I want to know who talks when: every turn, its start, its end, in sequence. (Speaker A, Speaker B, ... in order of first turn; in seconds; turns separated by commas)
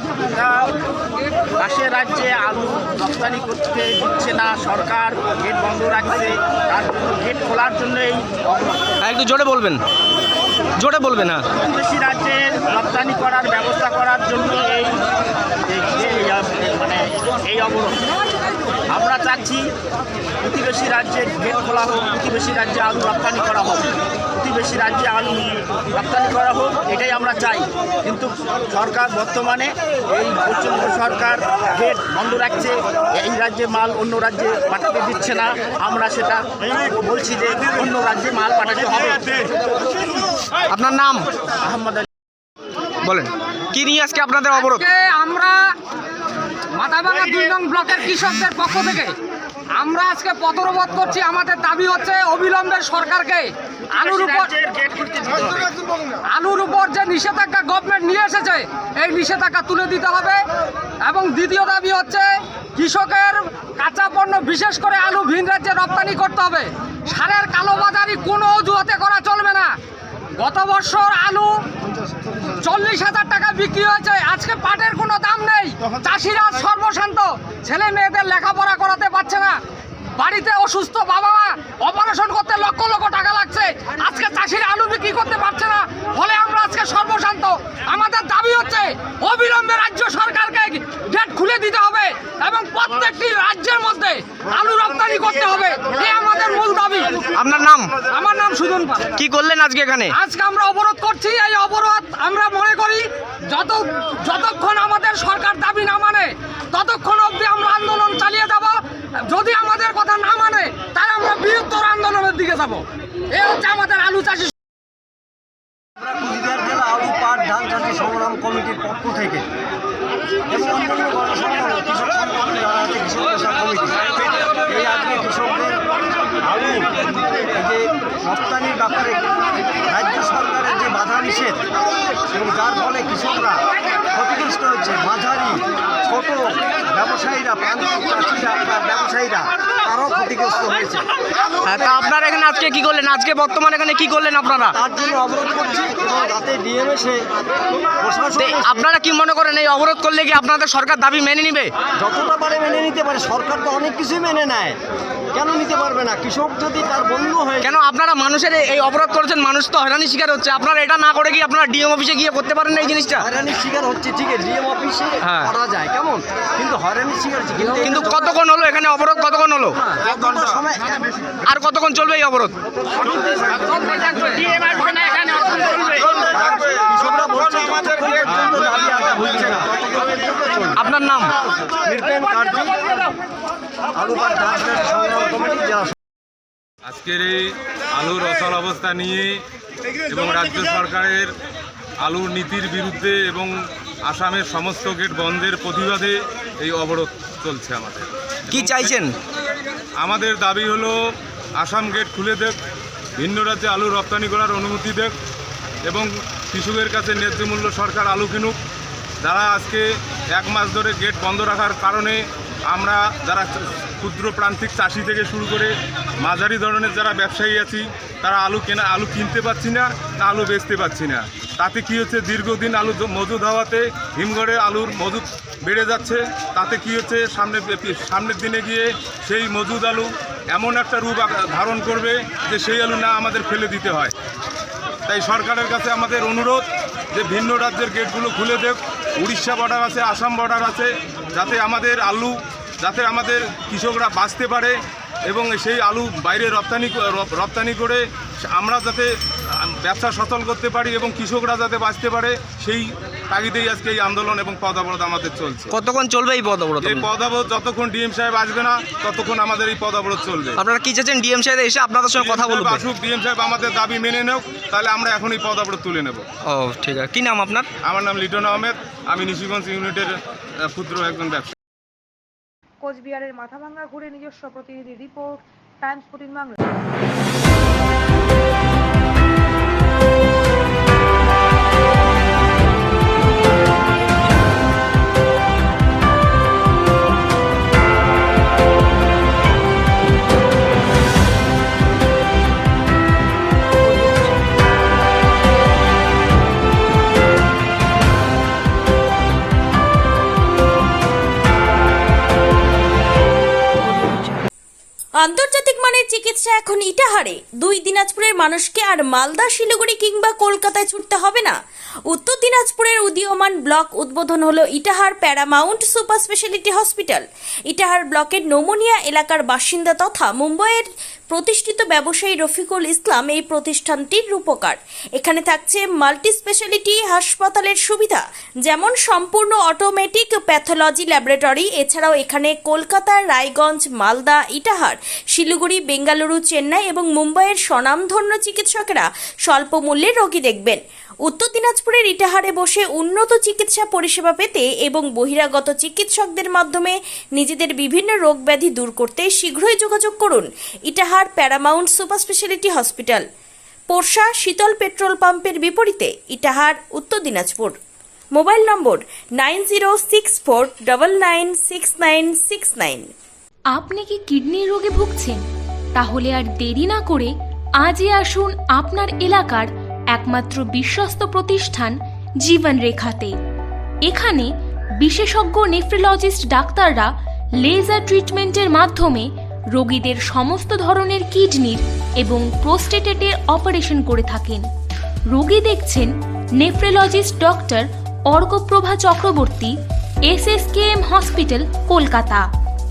Speaker A: 0.3-0.7, Speaker A: 1.6-8.8, Speaker B: 9.0-9.8, Speaker B: 10.8-11.4, Speaker A: 11.6-15.0, Speaker A: 15.7-18.1, Speaker A: 18.9-19.7, Speaker A: 20.4-39.5, Speaker B: 40.7-41.2, Speaker A: 41.6-42.0, Speaker B: 43.0-44.8, Speaker C: 44.6-45.7, Speaker C: 46.7-49.1, Speaker C: 49.7-54.5, Speaker A: 54.0-55.7, Speaker C: 56.3-60.4, Speaker C: 61.0-69.7, Speaker C: 70.4-71.5, Speaker C: 72.6-79.6, Speaker C: 80.2-97.3, Speaker B: 97.3-97.9, Speaker C: 98.0-99.1, Speaker B: 99.2-100.1, Speaker C: 100.1-114.5, Speaker D: 116.0-119.4, Speaker D: 120.5-124.0, Speaker D: 124.7-125.8, Speaker D: 126.4-126.9, Speaker D: 127.5-129.2, Speaker D: 129.9-131.6, Speaker D: 132.3-133.6, Speaker D: 134.1-141.1, Speaker B: 141.6-144.7, Speaker D: 141.7-142.0, Speaker D: 144.8-147.3, Speaker D: 148.0-148.9, Speaker B: 148.4-151.7, Speaker D: 152.0-154.8, Speaker D: 155.3-157.7, Speaker B: 157.6-163.2, Speaker D: 162.8-168.4, Speaker B: 167.8-169.7, Speaker D: 169.7-171.3, Speaker B: 171.5-172.5, Speaker D: 173.0-174.6, Speaker A: 174.8-175.2, Speaker D: 176.3-180.6, Speaker B: 180.8-181.3, Speaker D: 181.8-183.0, Speaker D: 183.9-185.9, Speaker E: 186.8-189.3, Speaker E: 190.1-191.3, Speaker E: 192.0-193.5, Speaker E: 194.1-199.0, Speaker B: 198.5-199.1, Speaker E: 200.0-200.9, Speaker E: 201.6-202.6, Speaker E: 203.2-205.1, Speaker E: 205.9-208.6, Speaker E: 209.2-234.1, Speaker E: 235.1-244.7, Speaker E: 245.3-248.0, Speaker E: 248.5-249.1, Speaker E: 249.8-255.7, Speaker B: 255.7-257.1, Speaker E: 256.8-260.6, Speaker B: 260.6-262.8, Speaker E: 262.1-266.2, Speaker B: 266.5-267.7, Speaker E: 267.8-271.5, Speaker F: 272.8-276.7, Speaker G: 305.2-311.5, Speaker G: 312.1-353.2, Speaker G: 353.9-357.8, Speaker G: 358.3-363.1, Speaker H: 363.7-365.4, Speaker H: 365.9-373.3, Speaker H: 374.1-374.5, Speaker H: 375.0-377.1, Speaker H: 377.6-384.6, Speaker H: 385.3-389.7, Speaker H: 390.3-392.4